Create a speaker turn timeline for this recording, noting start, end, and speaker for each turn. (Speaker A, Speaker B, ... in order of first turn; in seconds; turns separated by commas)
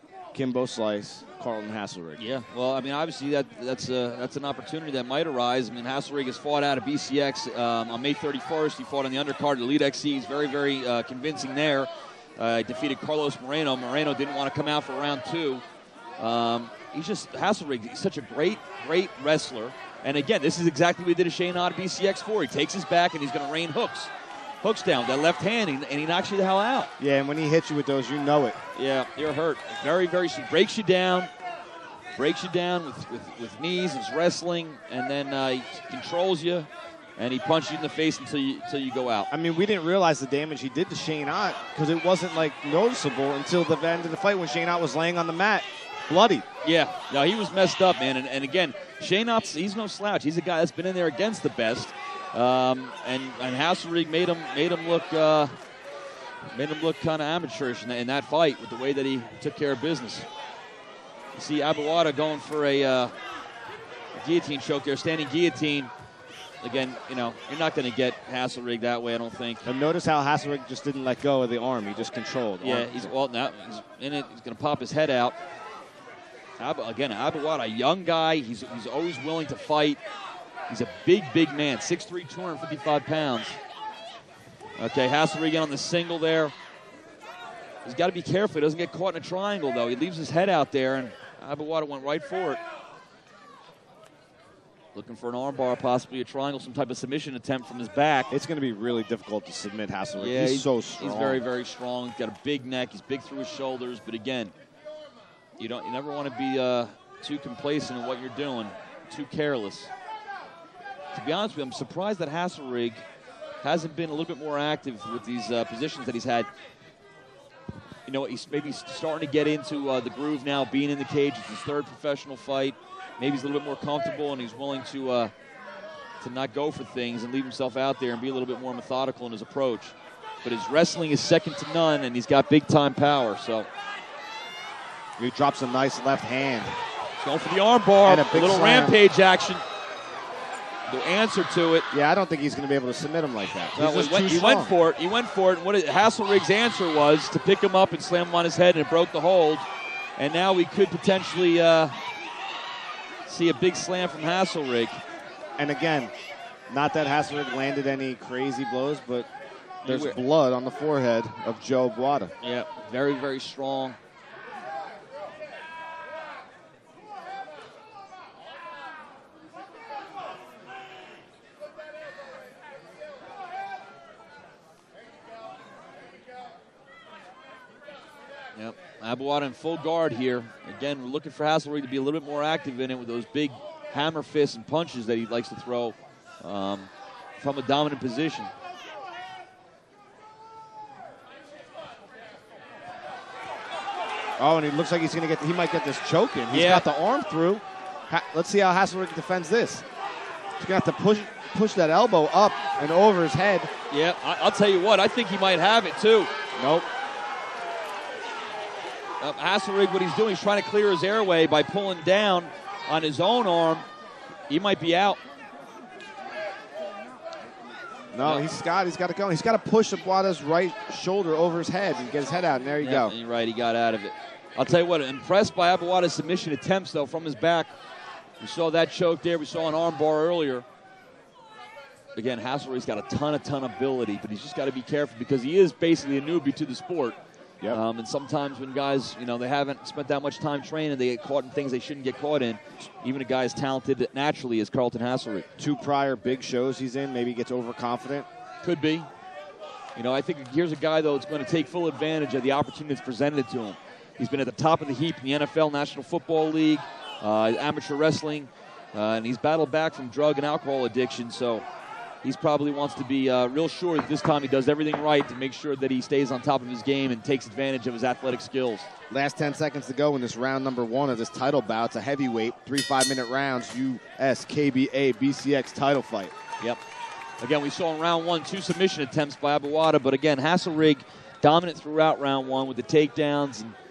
Speaker A: 0.3-2.2, Speaker B: 2.2-15.6, Speaker B: 16.2-24.1, Speaker B: 24.6-26.9, Speaker A: 27.0-28.6, Speaker B: 28.8-31.3, Speaker B: 32.2-39.3, Speaker A: 39.3-46.5, Speaker B: 46.6-55.5, Speaker B: 56.5-60.3, Speaker B: 61.4-63.1, Speaker B: 64.2-65.9, Speaker B: 66.6-69.6, Speaker A: 69.7-73.1, Speaker B: 72.6-75.4, Speaker B: 76.6-80.0, Speaker B: 80.7-83.6, Speaker B: 84.8-86.5, Speaker B: 87.8-92.6, Speaker B: 94.9-98.3, Speaker A: 98.3-101.4, Speaker B: 100.2-104.5, Speaker B: 105.6-109.9, Speaker B: 111.1-113.0, Speaker B: 113.6-116.5, Speaker B: 118.1-125.3, Speaker B: 126.2-133.7, Speaker A: 135.2-136.7, Speaker B: 137.2-139.6, Speaker A: 138.0-138.9, Speaker B: 140.9-141.9, Speaker A: 141.9-144.7, Speaker B: 143.8-149.7, Speaker B: 150.2-151.9, Speaker B: 153.3-155.0, Speaker A: 155.6-156.1, Speaker A: 156.7-159.3, Speaker B: 159.8-160.2, Speaker A: 159.8-162.3, Speaker B: 162.4-164.0, Speaker B: 178.6-188.5, Speaker A: 194.4-199.9, Speaker B: 196.5-196.9, Speaker A: 200.6-203.7, Speaker B: 203.9-206.3, Speaker A: 206.6-206.9, Speaker B: 209.2-213.9, Speaker B: 214.5-215.2, Speaker A: 218.1-223.1, Speaker B: 218.2-218.5, Speaker B: 222.8-227.7, Speaker B: 228.4-230.7, Speaker B: 232.2-237.2, Speaker B: 237.7-245.5, Speaker A: 245.6-248.3, Speaker B: 248.6-249.1, Speaker B: 250.0-261.6, Speaker B: 262.2-268.9, Speaker A: 269.1-276.3, Speaker B: 277.4-283.8